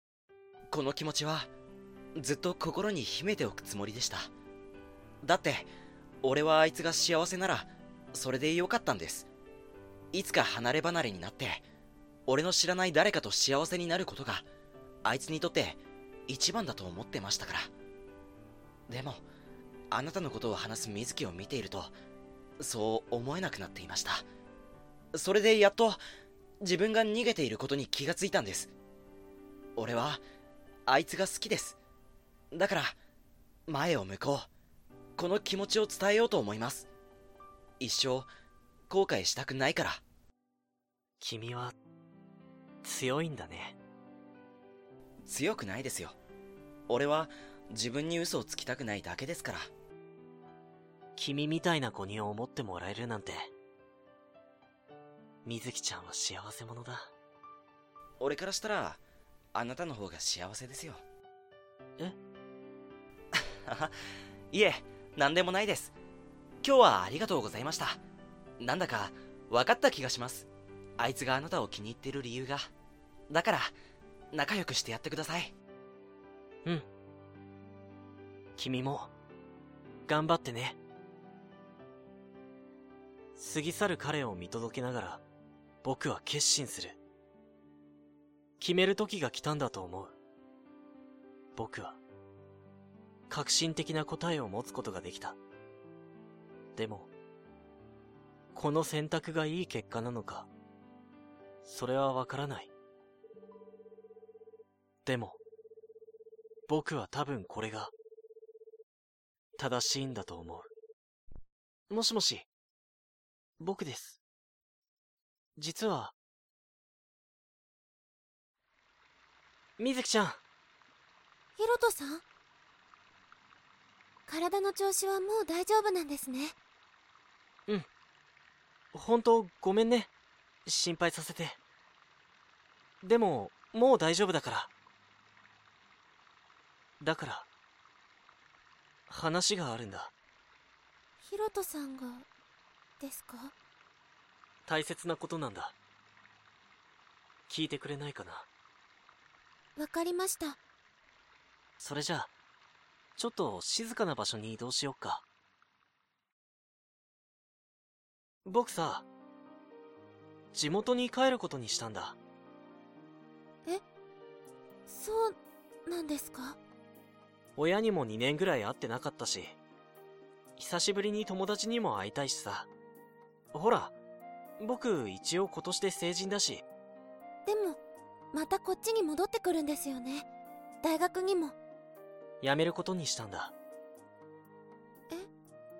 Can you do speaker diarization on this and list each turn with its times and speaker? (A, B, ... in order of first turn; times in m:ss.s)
0:00.7-0:01.5 A
0:02.2-0:04.3 A
0:05.2-0:05.7 A
0:06.2-0:09.3 A
0:10.1-0:11.6 A
0:12.3-0:14.4 A
0:15.0-0:17.7 A
0:18.9-0:19.2 A
0:19.9-0:21.9 A
0:22.6-0:24.2 A
0:25.1-0:26.0 A
0:26.6-0:28.7 A
0:29.8-0:30.2 A
0:30.8-0:31.8 A
0:32.5-0:33.0 A
0:33.7-0:34.5 A
0:35.2-0:36.9 A
0:37.8-0:38.3 A
0:38.9-0:40.0 A
0:41.2-0:41.8 B
0:42.8-0:43.8 B
0:45.2-0:46.2 A
0:46.9-0:49.7 A
0:51.2-0:53.5 B
0:55.4-0:57.1 B
0:58.2-0:59.0 A
0:59.5-1:01.0 A
1:03.3-1:04.0 A
1:04.5-1:05.9 A
1:06.6-1:08.0 A
1:08.6-1:10.5 A
1:11.0-1:12.7 A
1:13.3-1:13.7 A
1:14.3-1:15.5 A
1:18.6-1:19.1 B
1:20.0-1:20.8 B
1:23.3-1:25.2 B
1:25.8-1:27.0 B
1:28.6-1:30.1 B
1:31.5-1:32.0 B
1:33.3-1:35.4 B
1:36.8-1:37.1 B
1:38.5-1:40.5 B
1:41.6-1:42.7 B
1:45.0-1:45.4 B
1:46.7-1:47.9 B
1:49.6-1:50.7 B
1:51.9-1:52.5 B
1:53.6-1:54.2 B
1:55.6-1:56.1 B
1:59.8-2:00.4 B
2:01.6-2:02.2 C
2:04.3-2:06.5 C
2:08.9-2:10.1 B
2:10.6-2:11.6 B
2:13.0-2:14.7 B
2:17.0-2:17.5 B
2:19.1-2:20.1 B
2:21.2-2:22.3 C
2:23.0-2:23.5 C
2:24.6-2:25.8 B
2:27.5-2:28.5 B
2:29.8-2:30.6 C
2:31.8-2:32.3 B
2:33.2-2:35.2 B
2:38.4-2:39.1 B
2:40.5-2:42.2 B
2:44.9-2:46.6 C
2:47.6-2:49.6 B
2:50.6-2:52.7 B
2:53.5-2:53.9 B
2:54.6-2:56.6 B
2:57.4-2:57.8 C
2:58.3-3:00.3 C
3:00.8-3:01.5 C
3:02.4-3:03.5 B